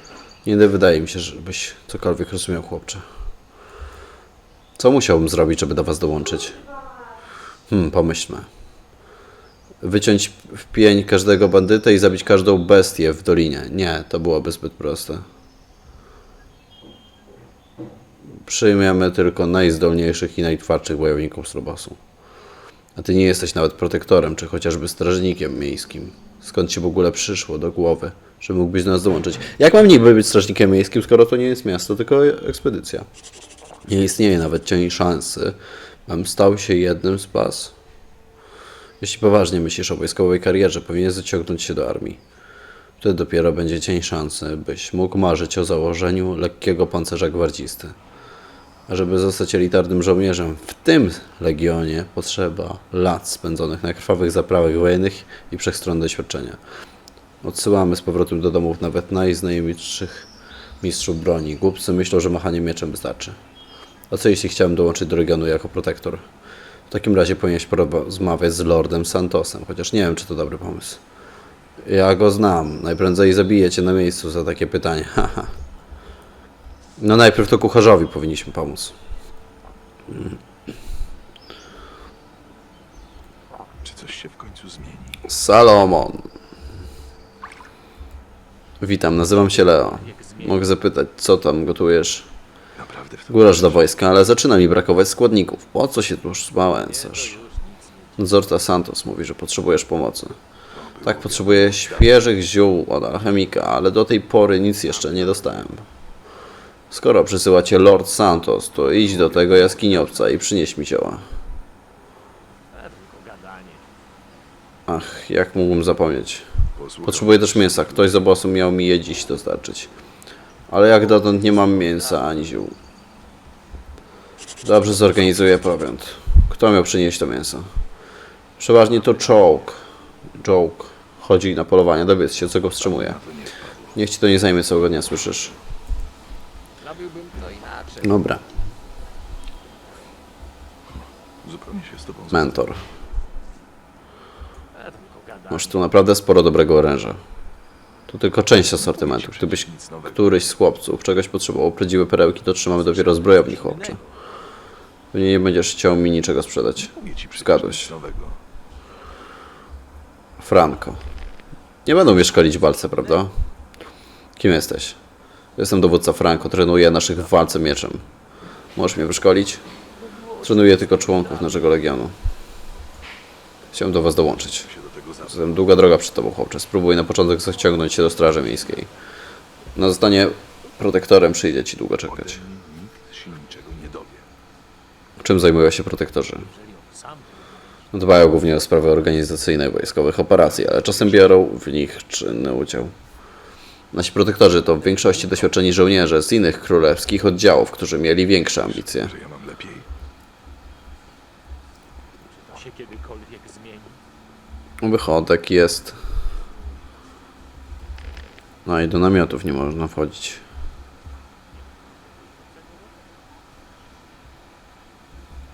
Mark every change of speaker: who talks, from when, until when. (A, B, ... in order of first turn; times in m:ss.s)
0:00.4-0:03.0 A
0:04.8-0:06.6 A
0:07.7-0:08.5 A
0:09.8-0:15.2 A
0:18.4-0:22.0 A
0:23.0-0:33.0 A
0:33.9-0:37.7 A
0:39.0-0:42.2 A
0:43.0-0:47.9 A
0:48.9-0:56.6 A
0:57.4-1:00.3 A
1:00.8-1:03.4 A
1:04.1-1:06.2 A
1:06.9-1:11.0 A
1:11.8-1:15.5 A
1:17.0-1:18.9 A
1:23.8-1:25.2 B
1:25.2-1:26.2 A
1:28.8-1:32.3 A
1:29.4-1:30.7 C
1:32.8-1:33.8 B
1:33.3-1:37.4 A
1:36.8-1:38.4 C
1:38.2-1:40.4 A
1:40.7-1:42.2 B
1:41.0-1:45.8 A
1:44.8-1:45.7 C
1:46.9-1:51.2 A
1:48.8-1:50.2 B
1:52.7-1:53.8 C
1:54.9-1:56.5 A
1:56.8-1:58.2 B
1:57.0-1:59.9 A
2:00.7-2:02.7 A
2:01.7-2:02.2 C
2:04.6-2:07.7 A
2:08.6-2:09.8 A
2:08.9-2:09.5 C
2:10.4-2:13.2 A
2:12.8-2:14.0 B
2:13.9-2:15.6 A
2:16.8-2:18.2 C
2:18.0-2:18.4 A
2:21.4-2:22.8 B
2:22.3-2:22.8 A
2:24.7-2:25.8 C
2:25.5-2:27.2 A
2:28.1-2:34.0 A
2:28.8-2:30.4 B
2:32.7-2:34.0 C
2:35.1-2:37.9 A
2:36.9-2:38.4 B
2:40.4-2:41.0 A
2:41.8-2:43.3 A
2:42.4-2:43.2 C
2:44.4-2:45.0 A
2:45.6-2:48.0 A
2:48.8-2:49.6 A
2:50.0-2:51.7 C
2:50.4-2:52.1 A
2:53.7-2:54.7 A
2:54.6-2:55.8 B
2:55.3-2:58.9 A
2:57.7-2:58.9 C
2:59.8-3:02.4 A
3:02.0-3:04.3 B
3:05.2-3:06.5 A
3:06.4-3:07.6 C
3:07.9-3:12.9 A
3:10.4-3:11.4 B
3:13.9-3:19.1 A
3:14.7-3:15.7 C
3:18.6-3:19.9 B
3:22.2-3:24.0 C
3:24.8-3:26.0 A
3:28.6-3:30.4 A